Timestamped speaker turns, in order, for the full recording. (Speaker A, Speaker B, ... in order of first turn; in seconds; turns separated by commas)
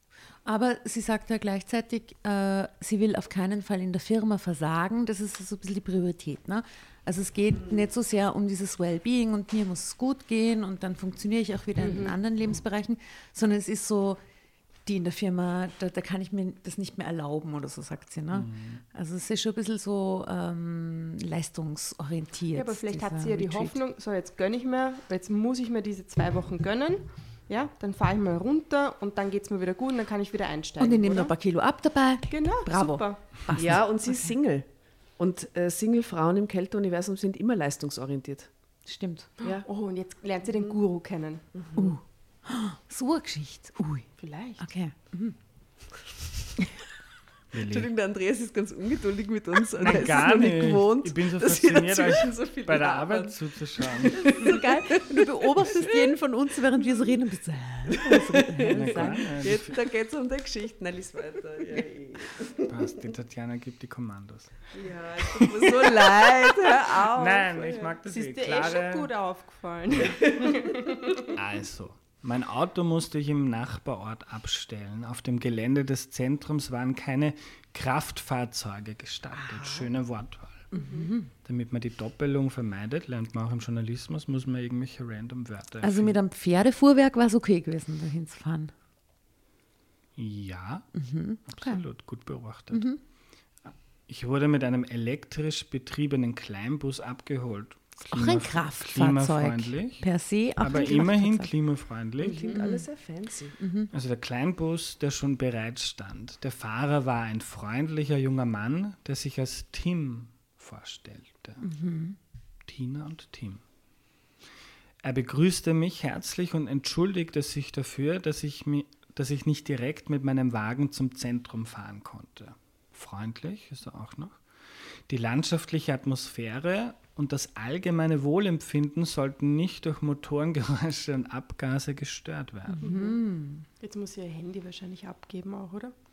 Speaker A: 0.5-14.2, Speaker B: 11.8-12.2, Speaker A: 14.9-23.8, Speaker C: 18.3-18.8, Speaker B: 22.5-31.3, Speaker A: 30.8-34.3, Speaker B: 32.3-33.2, Speaker D: 33.5-34.7, Speaker D: 35.2-38.5, Speaker A: 38.9-39.3, Speaker D: 39.4-39.7, Speaker B: 39.4-41.9, Speaker D: 41.5-41.8, Speaker A: 41.8-45.4, Speaker B: 44.2-44.7, Speaker C: 47.5-47.9, Speaker D: 47.6-55.9, Speaker C: 49.8-54.2, Speaker A: 54.2-59.3, Speaker D: 58.1-62.8, Speaker C: 58.7-59.8, Speaker C: 62.6-64.7, Speaker D: 64.7-67.9, Speaker C: 65.3-66.1, Speaker C: 66.7-69.1, Speaker B: 68.1-71.3, Speaker C: 69.9-70.2, Speaker C: 71.3-80.7, Speaker A: 80.7-81.3, Speaker B: 80.7-81.1, Speaker C: 81.4-86.2, Speaker A: 85.8-88.7, Speaker C: 90.2-90.9, Speaker A: 90.9-91.8, Speaker C: 91.5-92.9, Speaker A: 92.7-93.0, Speaker C: 93.6-100.1, Speaker A: 98.1-101.5, Speaker C: 100.6-102.5, Speaker D: 102.2-103.6, Speaker A: 102.5-102.9, Speaker A: 103.6-103.9, Speaker C: 103.9-111.6, Speaker A: 111.6-112.2, Speaker C: 112.7-113.6, Speaker C: 115.0-132.9, Speaker A: 132.7-133.7, Speaker B: 132.8-133.2, Speaker B: 133.8-135.9